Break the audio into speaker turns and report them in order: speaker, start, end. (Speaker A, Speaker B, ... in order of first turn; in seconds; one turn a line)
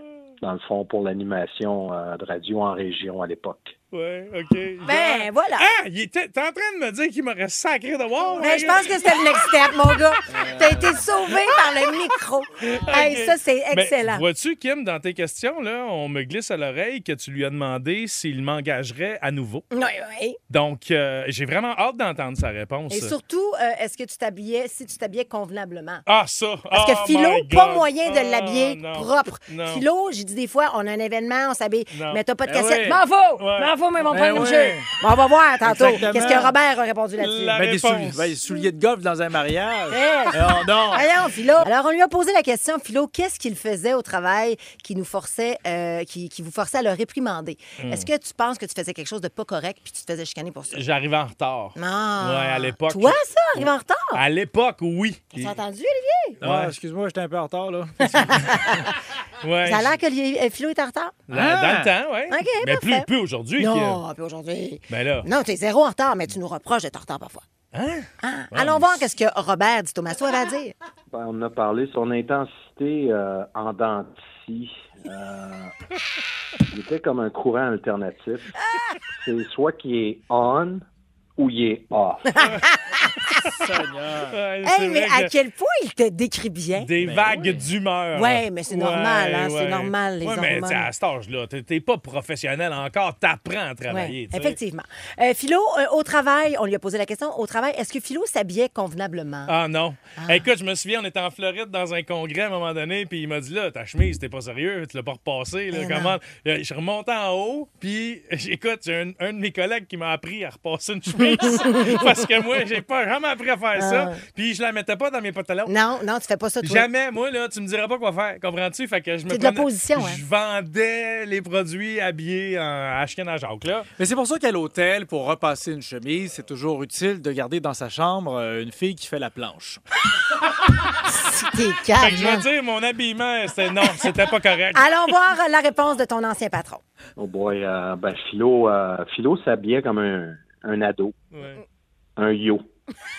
Speaker A: 0.4-3.7
Speaker B: 3.9-9.2
Speaker C: 4.8-5.7
Speaker C: 8.3-14.2
Speaker D: 10.3-11.0
Speaker B: 12.6-19.6
Speaker C: 19.7-20.4
Speaker B: 20.5-23.1
Speaker C: 22.9-26.0
Speaker B: 26.1-29.8
Speaker C: 26.7-37.6
Speaker B: 31.9-32.2
Speaker D: 32.5-33.0
Speaker B: 33.4-33.7
Speaker D: 34.0-34.9
Speaker D: 35.6-36.5
Speaker B: 37.2-38.3
Speaker D: 37.5-41.1
Speaker C: 39.9-50.8
Speaker B: 47.8-48.1
Speaker B: 50.7-55.5
Speaker C: 51.8-54.2
Speaker C: 55.3-56.4
Speaker B: 56.4-56.7
Speaker D: 56.4-58.9
Speaker C: 58.1-58.9
Speaker B: 59.4-59.9
Speaker C: 59.6-61.2
Speaker B: 61.3-64.0
Speaker D: 61.3-61.9
Speaker C: 62.3-67.4
Speaker B: 64.9-65.3
Speaker B: 67.7-69.0
Speaker C: 68.2-70.7
Speaker A: 71.1-75.7
Speaker A: 76.7-78.5
Speaker C: 78.7-78.9
Speaker A: 79.1-80.8
Speaker A: 81.4-82.4
Speaker C: 82.3-83.1
Speaker B: 82.4-82.7
Speaker B: 83.4-85.3
Speaker D: 83.5-84.3
Speaker C: 84.6-86.9
Speaker B: 86.8-94.6
Speaker D: 87.0-87.7
Speaker C: 88.1-90.9
Speaker C: 93.9-99.5
Speaker B: 99.5-115.7
Speaker C: 100.2-100.5
Speaker C: 105.7-106.2
Speaker C: 111.2-112.2
Speaker C: 113.8-114.2
Speaker C: 115.7-116.8
Speaker B: 116.6-123.9
Speaker C: 119.3-120.2
Speaker D: 124.0-129.8
Speaker C: 131.0-132.4
Speaker B: 132.0-134.9
Speaker C: 134.7-136.8
Speaker A: 137.2-141.2
Speaker B: 141.3-141.6
Speaker A: 142.2-142.7